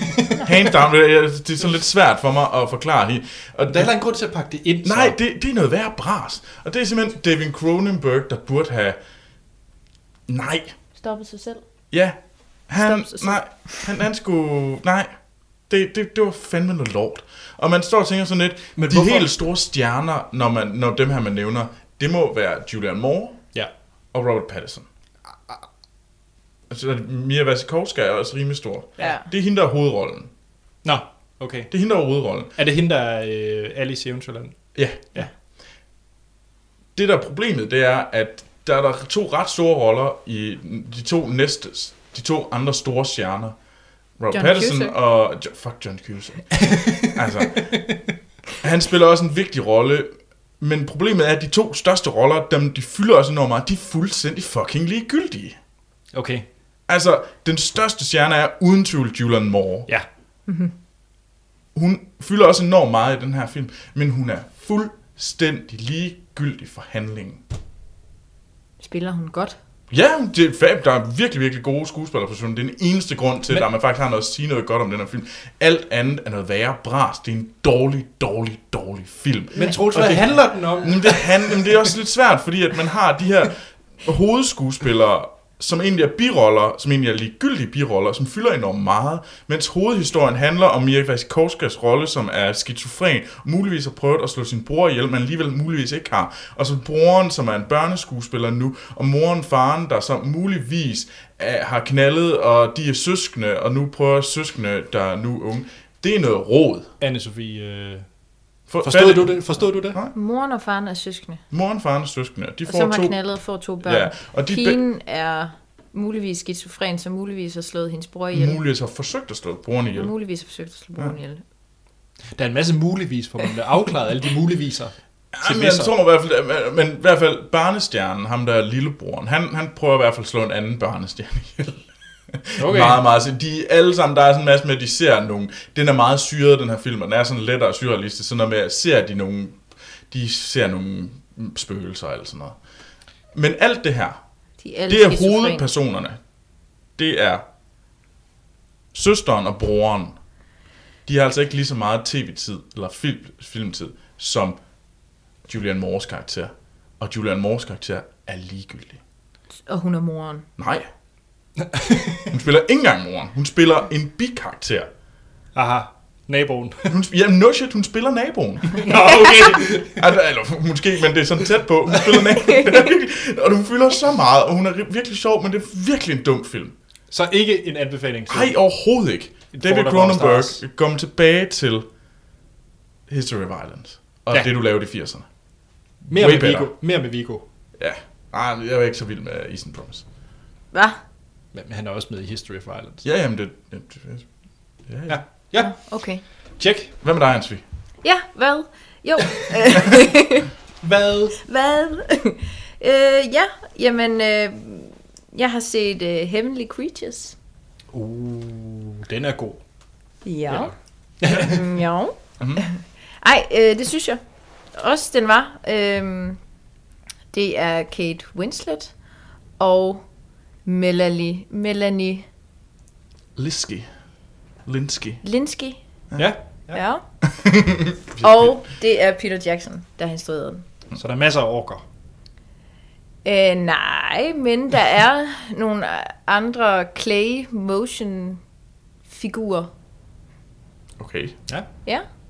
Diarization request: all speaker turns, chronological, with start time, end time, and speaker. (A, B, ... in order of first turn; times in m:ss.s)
0:00.4-0:03.9 A
0:03.7-0:05.2 B
0:04.8-0:09.0 A
0:10.3-0:10.7 A
0:11.0-0:11.6 C
0:11.9-0:15.1 A
0:12.8-0:13.9 C
0:15.7-0:23.4 A
0:18.8-0:19.3 B
0:24.1-0:24.9 A
0:26.7-0:30.3 A
0:29.0-0:29.2 C
0:30.8-0:31.7 B
0:31.7-0:32.5 A
0:32.6-0:34.6 B
0:34.8-0:35.1 A
0:37.0-0:43.6 A
0:44.2-0:47.8 A
0:44.3-0:45.0 C
0:46.6-0:48.0 B
0:48.6-0:55.6 A
0:56.1-0:56.5 B
0:56.9-0:59.9 A
1:00.5-1:00.7 C
1:01.7-1:07.4 A
1:08.8-1:09.6 C
1:09.9-1:46.9 A
1:19.6-1:21.9 B
1:47.0-1:48.0 B
1:48.7-1:50.1 A
1:48.8-1:50.0 B
1:50.1-1:51.4 C
1:51.5-1:53.2 A
1:52.7-1:58.6 C
1:53.8-1:54.8 A
1:58.3-2:00.1 A
1:59.9-2:01.4 C
2:02.4-2:05.9 B
2:05.3-2:19.6 A
2:12.6-2:13.0 B
2:20.1-2:22.6 A
2:23.3-2:24.2 A
2:24.6-2:25.7 C
2:24.9-2:26.2 A
2:27.0-2:27.5 A
2:28.9-2:30.2 A
2:31.1-2:34.6 A
2:35.5-2:39.0 A
2:39.7-2:40.5 C
2:40.6-2:40.9 A
2:41.6-2:42.4 B
2:42.3-2:44.9 A
2:45.6-2:46.9 B
2:46.9-2:56.7 A
2:48.8-2:50.1 B
2:57.1-2:58.6 B
2:58.3-3:01.9 A
2:59.5-3:00.6 B
3:03.1-3:05.3 A
3:06.1-3:06.7 A
3:06.1-3:07.4 B
3:07.8-3:10.0 A
3:10.7-3:11.0 C
3:11.5-3:13.0 B
3:13.0-3:14.3 A
3:14.9-3:15.2 A
3:15.1-3:15.8 B
3:15.6-3:16.2 C
3:16.6-3:16.9 B
3:17.0-3:17.6 A
3:18.0-3:20.5 C
3:20.8-3:21.4 B
3:21.4-3:27.4 C
3:27.9-3:29.6 B
3:30.2-3:30.7 C
3:30.5-3:31.6 B
3:31.3-3:34.2 C
3:34.7-3:36.4 C
3:37.3-3:38.9 C
3:39.6-3:40.0 C
3:40.6-3:42.3 C
3:43.4-3:43.9 A
3:44.6-3:45.2 A
3:45.2-3:45.8 C
3:46.2-3:46.8 B
3:46.7-3:47.0 C
3:47.2-3:48.6 A
3:48.2-3:50.6 C
3:51.0-3:51.8 B
3:53.2-3:58.4 C
3:59.1-3:59.7 C
4:01.0-4:01.4 A